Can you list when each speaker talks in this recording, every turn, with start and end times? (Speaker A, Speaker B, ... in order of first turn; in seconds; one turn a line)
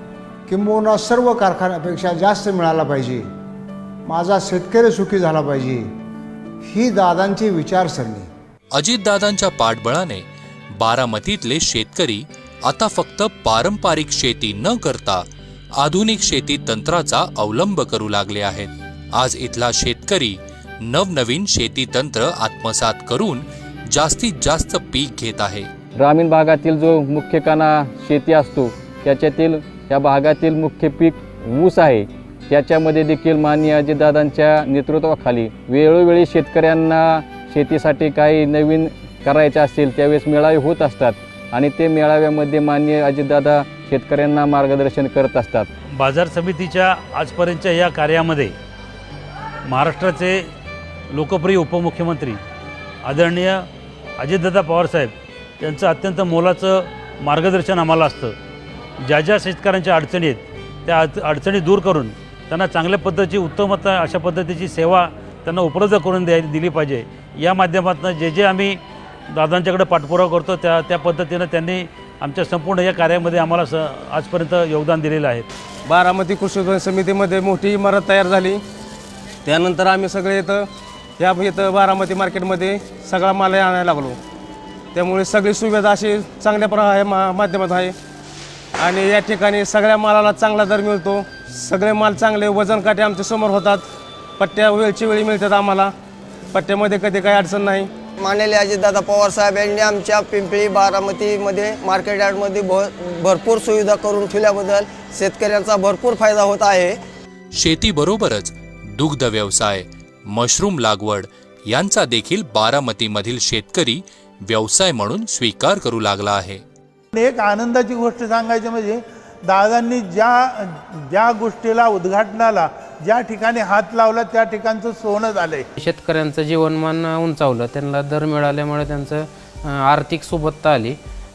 Speaker A: 0.5-3.2
Speaker A: 4.1-5.9
Speaker A: 6.7-8.3
Speaker B: 8.7-15.2
Speaker B: 15.8-25.7
Speaker C: 26.0-45.7
Speaker D: 46.0-48.5
Speaker D: 49.7-50.5
Speaker D: 51.1-52.4
Speaker D: 53.0-53.7
Speaker D: 54.2-58.3
Speaker D: 59.0-68.8
Speaker D: 69.3-75.5
Speaker E: 75.9-78.6
Speaker E: 79.5-80.7
Speaker E: 81.2-84.2
Speaker E: 85.0-87.9
Speaker E: 88.8-93.8
Speaker E: 94.4-95.9
Speaker E: 96.5-97.9
Speaker F: 98.2-107.0
Speaker B: 107.6-116.6
Speaker G: 117.2-120.5
Speaker G: 121.1-125.7
Speaker H: 125.8-129.2
Speaker H: 129.9-130.9